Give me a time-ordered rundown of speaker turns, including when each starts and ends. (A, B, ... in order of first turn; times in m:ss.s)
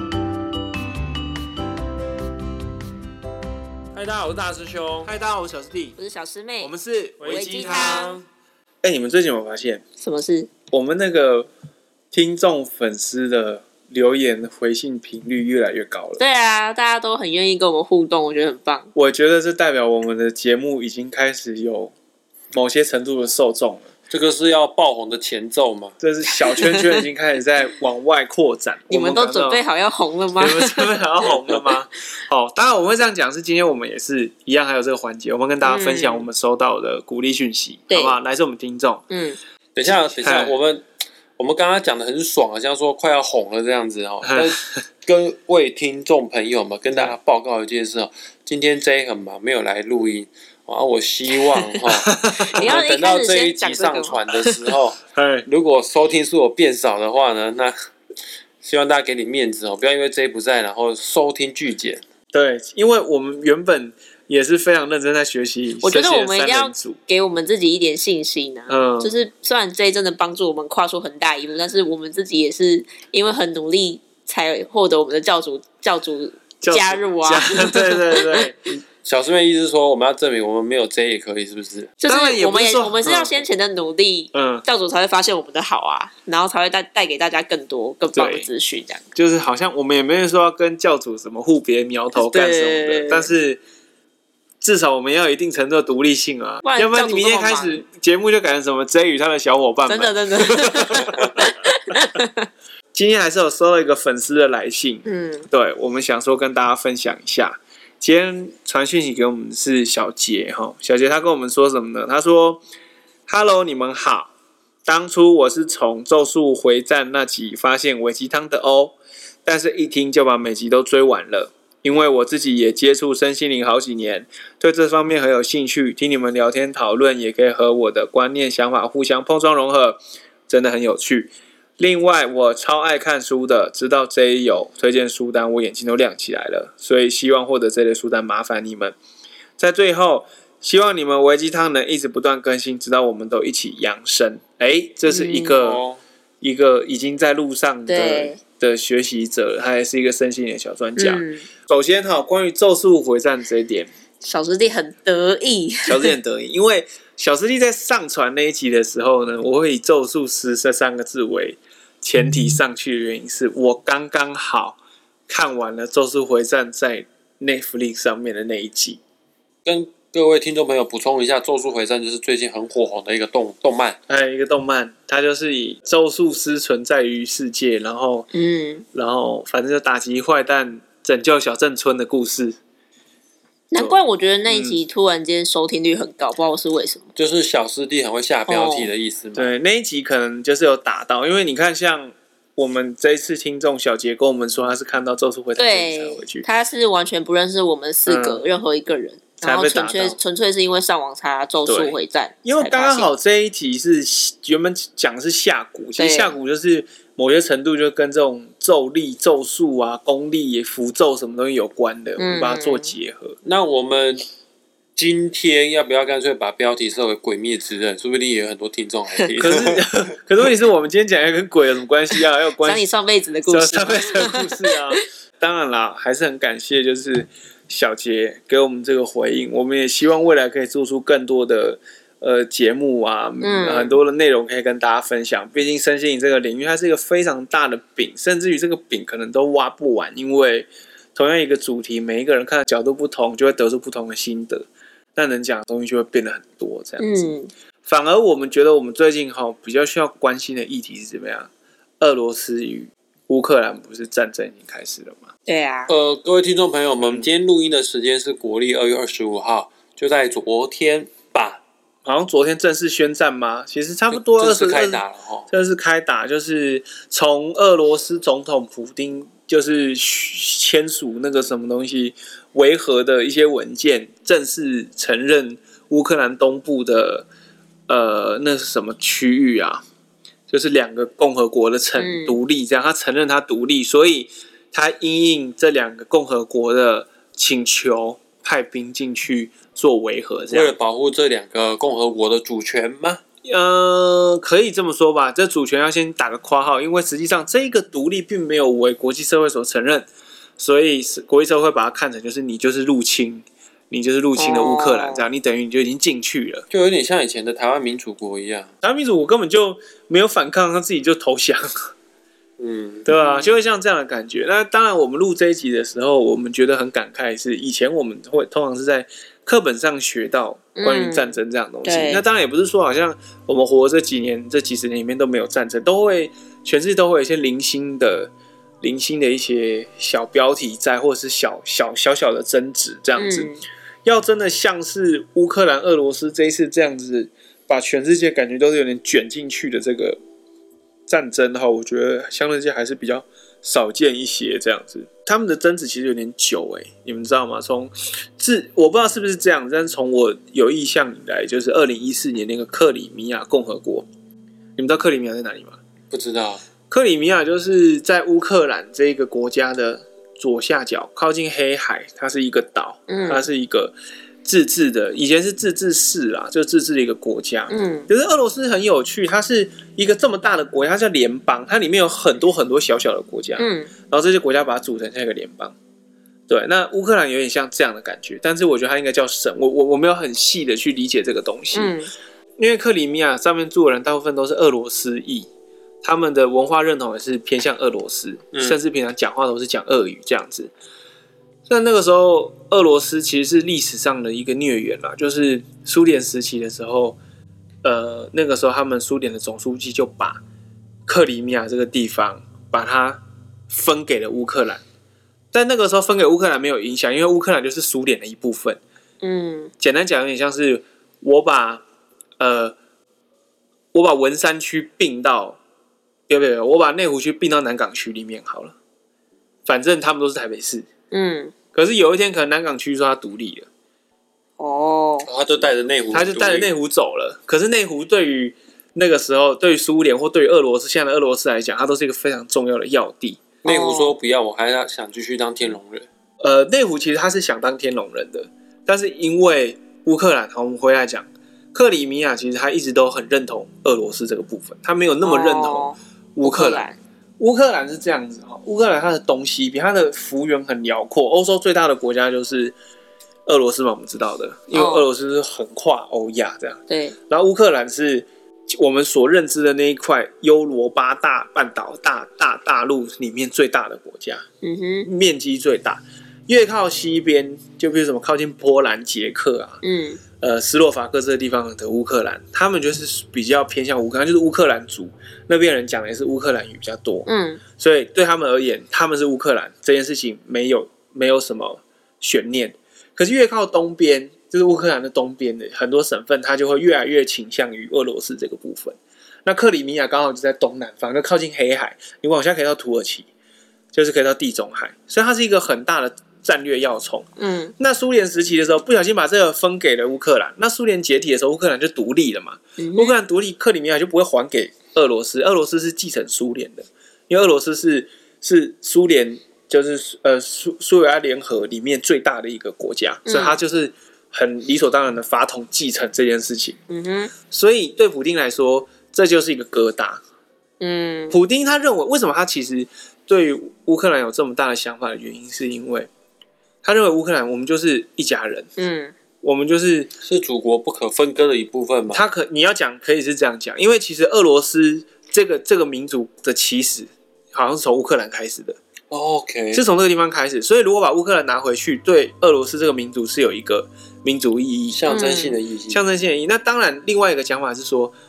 0:03.9-0:05.1 A
0:05.0-0:06.0 B
0:06.0-0:06.7 C
0:06.6-0:08.2 B
0:07.2-0:08.2 A
0:07.2-0:08.2 C
0:08.8-0:09.8 B
0:10.0-0:10.5 C
0:10.7-0:11.5 B
0:12.1-0:16.2 B
0:16.2-0:18.9 C
0:18.9-0:21.9 B
0:22.5-0:23.9 B
0:24.1-0:25.9 A
0:26.0-0:29.6 B
0:28.9-0:31.7 C
0:30.4-0:39.0 B
0:35.6-0:36.3 C
0:37.9-0:38.2 C
0:39.1-0:39.4 C
0:39.7-0:40.8 A
0:40.2-0:40.5 B
0:41.4-0:57.7 A
0:44.2-0:44.7 B
0:52.0-0:52.6 B
0:52.4-0:54.6 C
0:55.1-0:55.4 B
0:58.6-1:02.0 A
1:02.3-1:07.0 B
1:05.8-1:18.4 C
1:08.7-1:09.1 B
1:16.6-1:18.8 B
1:19.0-1:21.9 A
1:22.0-1:29.0 C
1:22.1-1:23.4 B
1:24.3-1:24.6 B
1:28.1-1:28.5 B
1:29.1-1:33.6 B
1:32.1-1:33.3 C
1:34.6-1:41.9 B
1:36.6-1:37.8 C
1:39.9-1:42.5 C
1:42.9-1:52.6 B
1:45.0-1:45.5 C
1:53.3-1:54.3 B
1:54.8-2:19.0 B
2:19.6-2:25.8 B
2:25.1-2:25.6 C
2:25.6-2:26.0 A
2:26.4-2:33.9 B
2:27.9-2:28.4 C
2:31.0-2:31.5 C
2:34.2-2:36.1 C
2:35.8-2:49.0 B
2:49.6-2:54.0 A
2:54.1-2:58.3 B
2:58.3-2:58.8 C
2:58.9-3:02.6 B
3:03.7-3:07.1 C
3:03.7-3:04.8 B
3:07.2-3:09.5 A
3:08.5-3:08.9 C
3:09.4-3:16.4 B
3:15.6-3:23.1 C
3:18.0-3:18.4 B
3:19.4-3:20.2 B
3:21.6-3:33.4 B
3:26.0-3:26.3 C
3:32.2-3:32.9 C
3:33.4-3:34.2 A
3:35.0-3:39.8 A
3:39.4-3:42.8 B
3:42.6-3:44.8 C
3:43.4-4:07.3 B
3:53.4-3:54.0 C
4:07.0-4:07.5 C
4:07.8-4:11.5 B
4:12.0-4:15.3 B
4:15.4-4:15.9 C
4:15.9-4:21.6 A
4:22.0-4:37.2 B
4:24.1-4:25.5 A
4:37.9-4:39.8 B
4:40.5-4:50.7 B
4:42.0-4:42.4 C
4:50.5-4:53.2 A
4:53.4-5:00.1 B
5:00.6-5:06.6 B
5:04.4-5:05.3 C
5:06.7-5:08.7 A
5:08.8-5:11.9 B
5:12.6-5:13.1 A
5:13.0-5:33.5 B
5:13.1-5:13.5 C
5:20.8-5:22.2 C
5:33.2-5:33.6 C
5:34.0-5:40.2 B
5:41.1-5:54.0 B
5:54.8-5:55.8 B
5:56.1-5:56.6 A
5:56.9-6:15.7 B
6:03.1-6:03.4 C
6:07.7-6:08.1 C
6:13.6-6:13.9 C
6:16.5-6:21.9 B
6:21.7-6:22.1 C
6:22.6-6:25.5 B
6:26.0-6:30.7 B
6:28.5-6:28.8 A
6:31.7-6:37.2 B
6:37.8-6:40.4 B
6:41.0-6:44.8 B
6:45.5-6:48.8 B
6:49.2-6:49.7 C
6:49.8-6:51.8 B
6:52.4-6:52.8 B
6:53.9-6:55.6 B
6:56.3-6:58.7 B
6:59.6-7:00.9 B
7:01.1-7:01.5 C
7:01.7-7:03.7 B
7:04.6-7:05.3 C
7:05.2-7:06.7 A
7:06.1-7:13.4 B
7:13.6-7:16.1 A
7:13.6-7:14.2 C
7:16.4-7:26.8 B
7:25.2-7:27.0 C
7:27.4-7:32.7 B
7:33.4-7:44.4 B
7:34.7-7:35.0 C
7:36.9-7:37.2 C
7:44.6-7:45.1 C
7:45.0-7:49.8 B
7:49.8-7:50.2 C
7:50.4-8:13.3 B
7:57.3-7:57.6 C
8:13.9-8:17.3 B
8:17.4-8:17.7 C
8:17.8-8:36.8 B
8:22.8-8:23.1 C
8:33.2-8:33.6 C
8:36.9-8:37.3 C
8:37.5-8:40.2 B
8:40.8-8:41.4 C
8:41.3-8:46.1 B
8:46.8-8:48.7 B
8:48.8-8:49.1 C
8:49.4-8:50.1 B
8:50.2-8:52.2 A
8:52.1-8:58.8 B
8:59.1-8:59.8 A
8:59.7-9:05.1 B
9:04.9-9:06.0 A
9:05.1-9:05.6 C
9:05.9-9:08.1 B